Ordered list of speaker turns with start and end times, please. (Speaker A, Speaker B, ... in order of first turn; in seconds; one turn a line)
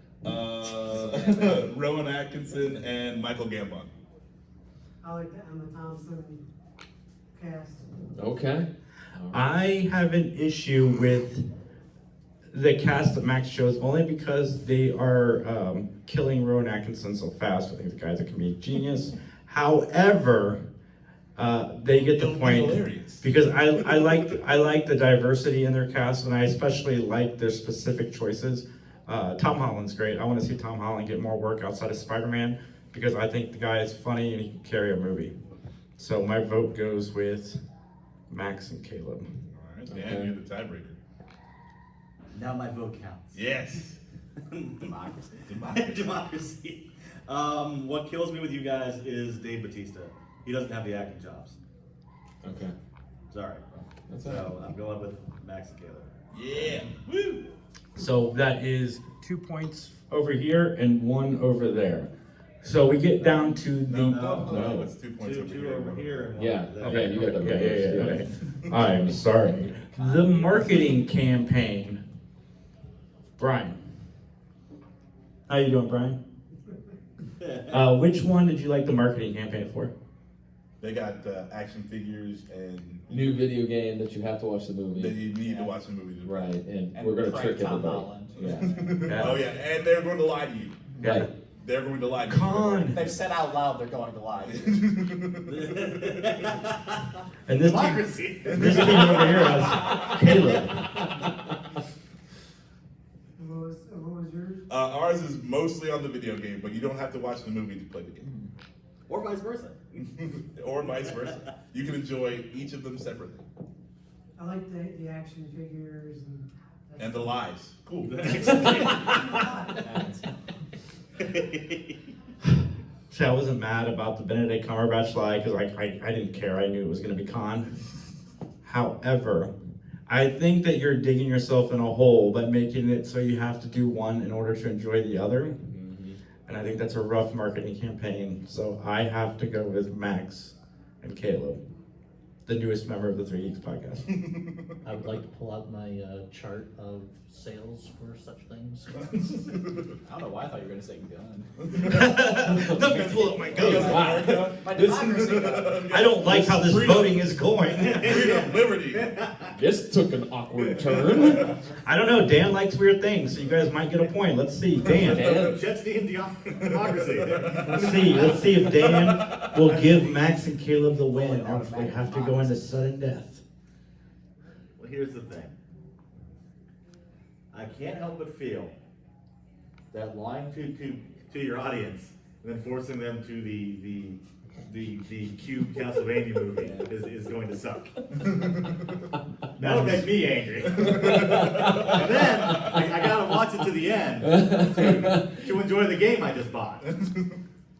Speaker A: 0.2-3.9
Speaker B: 5.0-6.4
Speaker B: 7.3-7.8
Speaker C: 8.2-9.4
Speaker D: 9.3-11.4
Speaker D: 12.5-20.6
Speaker D: 21.4-35.3
Speaker A: 22.0-23.3
Speaker D: 36.0-37.6
Speaker D: 38.3-39.3
Speaker A: 39.5-41.0
Speaker C: 39.9-40.3
Speaker E: 42.3-43.4
Speaker A: 43.3-44.0
Speaker E: 44.5-44.9
Speaker F: 44.8-45.4
Speaker A: 45.5-46.2
Speaker E: 45.7-51.6
Speaker C: 52.4-52.7
Speaker E: 53.3-53.6
Speaker C: 54.1-54.5
Speaker E: 54.2-56.1
Speaker A: 56.3-57.5
Speaker D: 58.0-62.1
Speaker D: 62.6-64.4
Speaker A: 63.3-66.5
Speaker E: 64.1-67.7
Speaker C: 64.5-64.9
Speaker C: 66.3-68.2
Speaker D: 66.8-72.0
Speaker E: 70.0-70.7
Speaker D: 73.4-73.8
Speaker D: 75.5-76.2
Speaker E: 77.4-77.8
Speaker D: 77.7-79.9
Speaker A: 80.8-83.0
Speaker C: 83.1-85.2
Speaker A: 84.9-86.5
Speaker F: 85.4-85.8
Speaker C: 86.2-88.8
Speaker F: 86.9-88.3
Speaker A: 88.4-93.1
Speaker D: 89.1-89.4
Speaker D: 91.0-91.3
Speaker C: 91.0-91.3
Speaker D: 92.3-93.1
Speaker F: 92.9-94.9
Speaker A: 94.4-96.5
Speaker E: 95.5-97.0
Speaker D: 97.5-101.0
Speaker E: 97.6-100.7
Speaker A: 98.4-100.0
Speaker B: 103.4-104.6
Speaker A: 104.7-108.3
Speaker E: 109.1-109.8
Speaker A: 110.0-113.4
Speaker B: 114.4-117.4
Speaker A: 117.0-119.0
Speaker E: 118.0-119.4
Speaker B: 119.1-119.8
Speaker F: 119.8-120.3
Speaker E: 121.2-121.9
Speaker D: 122.4-127.8
Speaker D: 128.6-129.5
Speaker D: 130.1-135.7
Speaker C: 135.7-136.2
Speaker D: 136.5-141.6
Speaker D: 142.4-144.1
Speaker G: 144.8-149.1
Speaker A: 149.1-149.9
Speaker F: 150.1-151.8
Speaker A: 151.6-159.2
Speaker D: 151.8-154.3
Speaker F: 153.0-156.1
Speaker C: 153.6-154.5
Speaker D: 155.9-158.1
Speaker E: 157.8-159.5
Speaker C: 159.5-161.5
Speaker A: 160.6-161.5
Speaker D: 161.8-165.3
Speaker C: 164.9-165.6
Speaker E: 165.0-168.5
Speaker A: 166.6-169.6
Speaker D: 167.7-173.4
Speaker F: 171.1-172.6
Speaker E: 174.8-175.5
Speaker E: 177.5-178.7
Speaker E: 179.9-188.0
Speaker A: 188.3-188.7
Speaker E: 189.6-196.8
Speaker A: 190.6-192.7
Speaker C: 190.8-193.0
Speaker C: 194.2-195.4
Speaker A: 196.9-197.2